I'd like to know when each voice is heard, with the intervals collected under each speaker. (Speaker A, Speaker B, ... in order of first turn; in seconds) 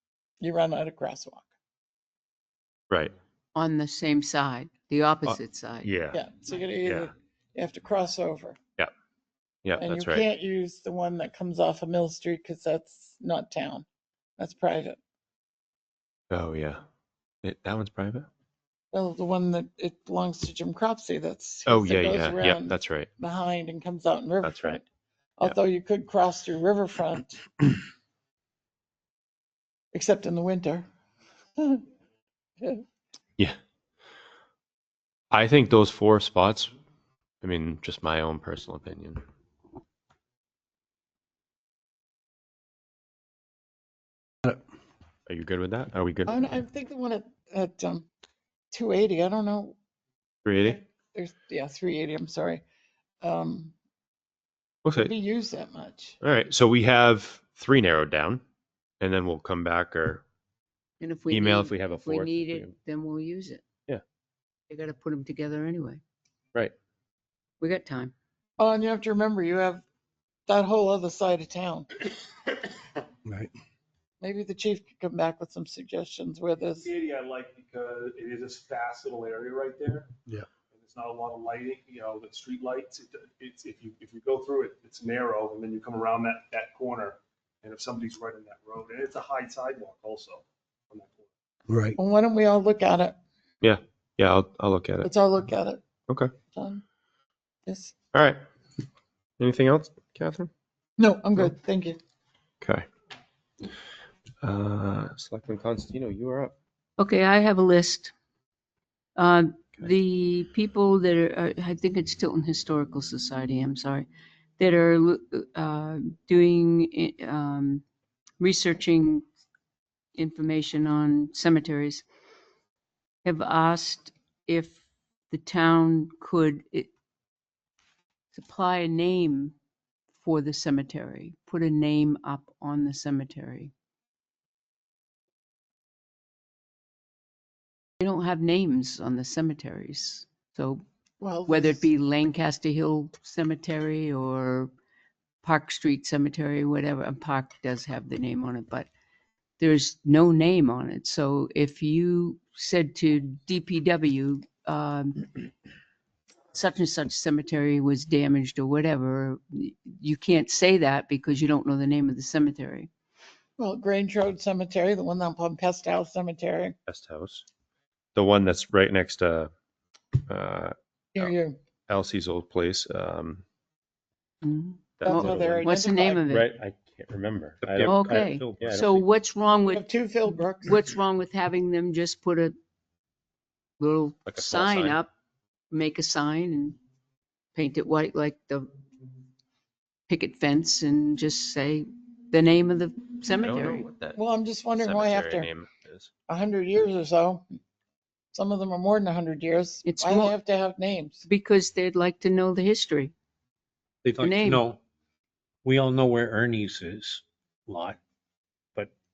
Speaker A: 0.4-1.5, 6.1-8.6, 9.8-13.9, 14.4-15.0, 18.9-24.9, 25.4-27.4, 29.9-30.9, 31.6-31.8, 46.3-48.1, 48.7-49.8, 50.6-52.6, 53.2-53.7, 55.0-56.2, 68.6-69.8, 70.5-71.9, 74.2-76.9, 92.0-93.2, 95.0-95.8, 96.5-96.8, 97.7-97.9, 101.0-102.0, 141.2-141.9, 163.6-166.8, 171.2-171.6, 175.0-176.3, 179.7-180.9, 194.2-195.5, 196.3-197.4, 198.3-201.2
Speaker B: 3.5-5.9, 61.0-63.6, 64.7-66.0, 67.6-68.1, 107.0-108.1, 109.2-114.1, 114.6-117.8, 118.4-119.2, 120.2-122.0, 123.2-124.8, 125.3-126.9, 128.3-129.6, 130.2-133.7, 138.0-140.8, 141.5-144.7, 145.4-148.9, 149.6-155.3, 156.5-162.9, 174.4-176.5, 177.8-182.5, 183.8-185.1, 185.7-186.8, 187.6-188.7, 190.1-193.9, 199.8-200.3, 201.3-203.1, 204.2-204.6
Speaker C: 5.3-6.2, 6.8-7.1, 9.6-10.3, 16.3-16.8, 17.4-18.3, 21.7-23.1, 24.4-24.8, 35.3-36.7, 37.4-39.2, 45.3-46.5, 50.5-50.8, 54.8-55.1, 56.2-58.4, 59.0-60.2, 61.3-62.7, 93.6-95.1, 98.1-98.4, 99.4-100.5, 104.4-106.5, 166.9-167.5, 168.2-169.5, 170.3-171.3, 171.9-173.4, 175.0-175.7, 176.3-179.0, 184.3-185.0, 193.3-194.2, 194.8-196.1
Speaker D: 76.8-80.1, 80.7-91.3
Speaker E: 177.6-178.7, 204.0-204.8, 205.7-208.0